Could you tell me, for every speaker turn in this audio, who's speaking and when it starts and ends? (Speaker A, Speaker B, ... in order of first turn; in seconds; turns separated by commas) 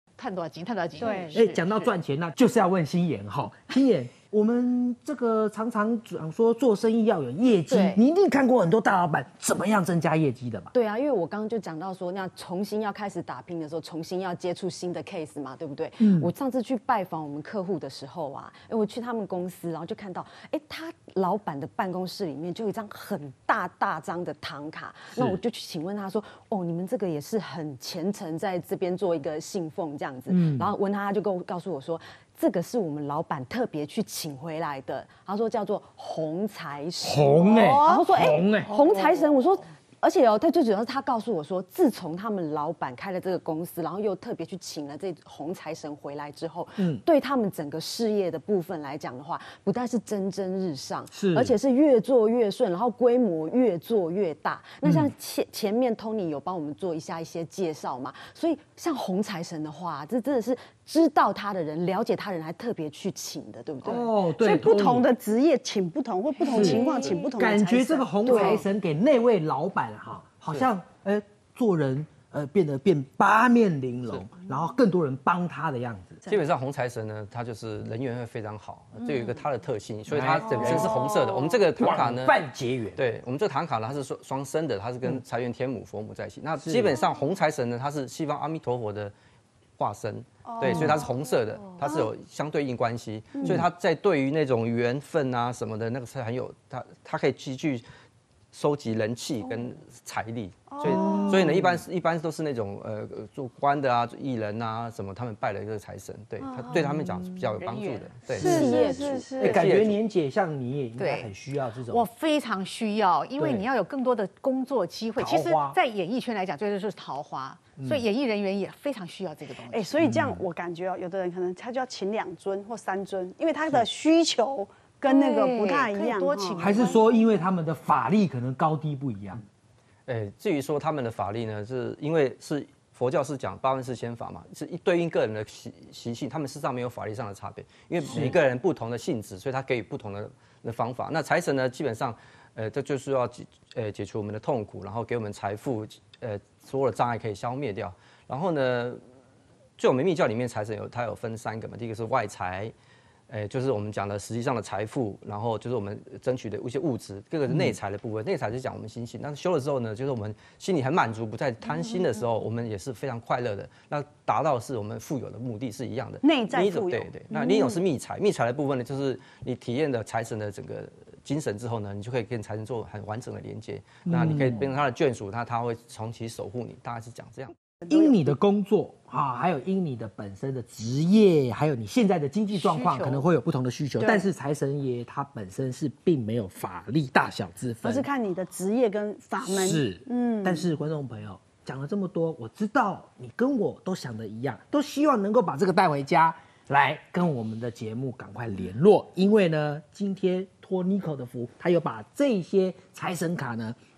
Speaker A: 0.2-1.9, Speaker B: 1.0-1.4, Speaker C: 1.3-10.7, Speaker D: 7.7-8.0, Speaker D: 10.7-64.1, Speaker C: 16.0-16.3, Speaker C: 25.1-25.4, Speaker C: 30.3-30.7, Speaker C: 37.0-38.7, Speaker C: 46.8-47.0, Speaker C: 51.1-51.5, Speaker C: 54.8-55.1, Speaker C: 63.8-65.1, Speaker B: 63.9-68.6, Speaker C: 66.5-76.2, Speaker D: 68.2-68.6, Speaker E: 76.3-82.4, Speaker C: 80.1-81.0, Speaker B: 80.6-80.9, Speaker C: 81.8-83.0, Speaker E: 82.9-89.1, Speaker C: 86.6-87.0, Speaker E: 89.8-97.8, Speaker B: 90.5-91.2, Speaker C: 90.6-91.0, Speaker B: 91.8-92.1, Speaker E: 98.5-110.0, Speaker B: 100.7-101.5, Speaker C: 100.8-101.7, Speaker B: 106.4-106.8, Speaker A: 107.6-108.1, Speaker B: 108.3-109.7, Speaker D: 108.3-109.3, Speaker C: 108.3-112.0, Speaker A: 111.0-111.3, Speaker A: 111.9-119.9, Speaker C: 113.4-113.6, Speaker C: 115.2-115.8, Speaker C: 117.8-118.0, Speaker B: 119.7-126.8, Speaker C: 120.0-120.4, Speaker A: 125.0-127.2, Speaker C: 126.6-129.4, Speaker E: 130.1-149.0, Speaker C: 138.0-138.4, Speaker E: 149.8-152.7, Speaker E: 153.3-177.5, Speaker B: 166.2-167.7, Speaker C: 174.1-174.7, Speaker B: 177.8-178.3, Speaker C: 177.8-188.1, Speaker A: 182.5-183.2, Speaker B: 184.0-184.2, Speaker B: 187.8-190.7, Speaker C: 189.4-203.8